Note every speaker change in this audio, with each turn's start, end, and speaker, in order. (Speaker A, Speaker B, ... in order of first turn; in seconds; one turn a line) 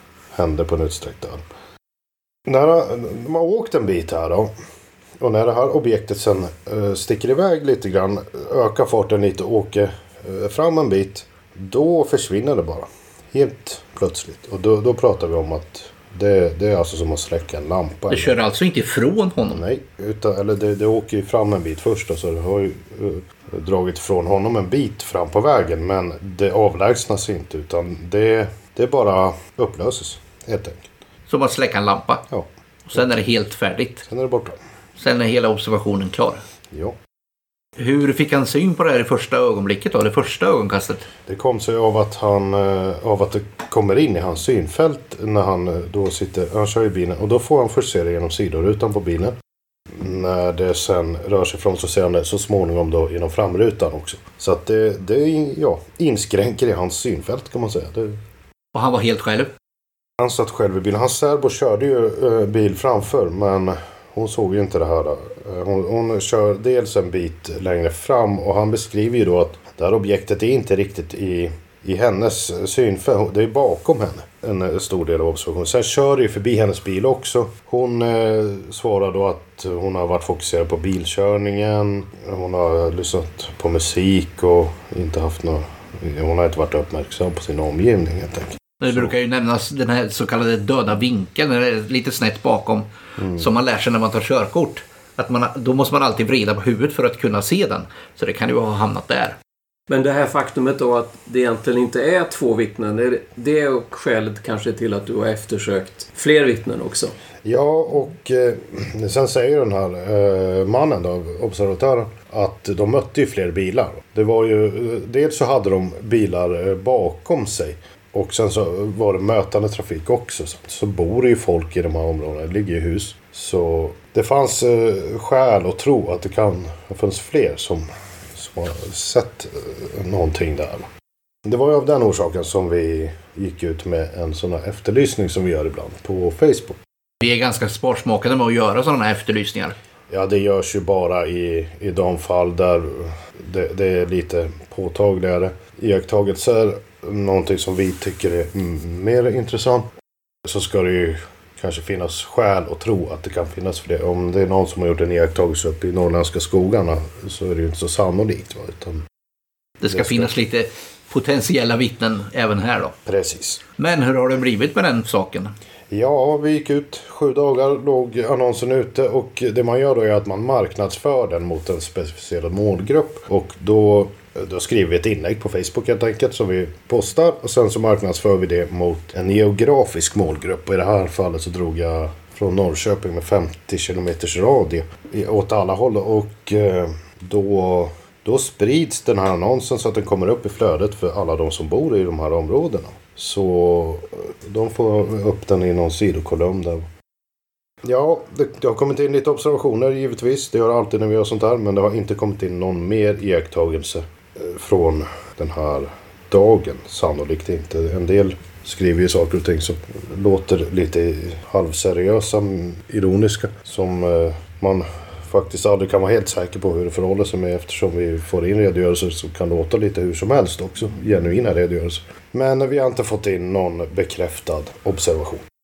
Speaker A: 0.3-1.4
Speaker A: 2.5-4.5
Speaker A: 5.2-18.4
Speaker B: 18.1-19.6
Speaker A: 19.4-30.9
Speaker B: 31.3-32.2
Speaker B: 32.9-34.0
Speaker A: 34.0-34.5
Speaker B: 35.0-36.4
Speaker A: 36.7-37.0
Speaker B: 37.8-41.1
Speaker A: 41.2-49.3
Speaker A: 49.9-58.2
Speaker B: 58.7-59.5
Speaker A: 60.2-89.1
Speaker B: 88.8-99.4
Speaker A: 93.2-93.5
Speaker C: 99.9-107.1
Speaker A: 107.4-130.9
Speaker A: 131.4-136.8
Speaker B: 137.2-139.8
Speaker A: 140.1-149.9
Speaker A: 150.4-159.0
Speaker B: 159.8-162.9
Speaker A: 159.9-160.3
Speaker A: 163.0-163.6
Speaker B: 163.8-165.5
Speaker A: 165.9-196.9
Speaker A: 197.8-225.4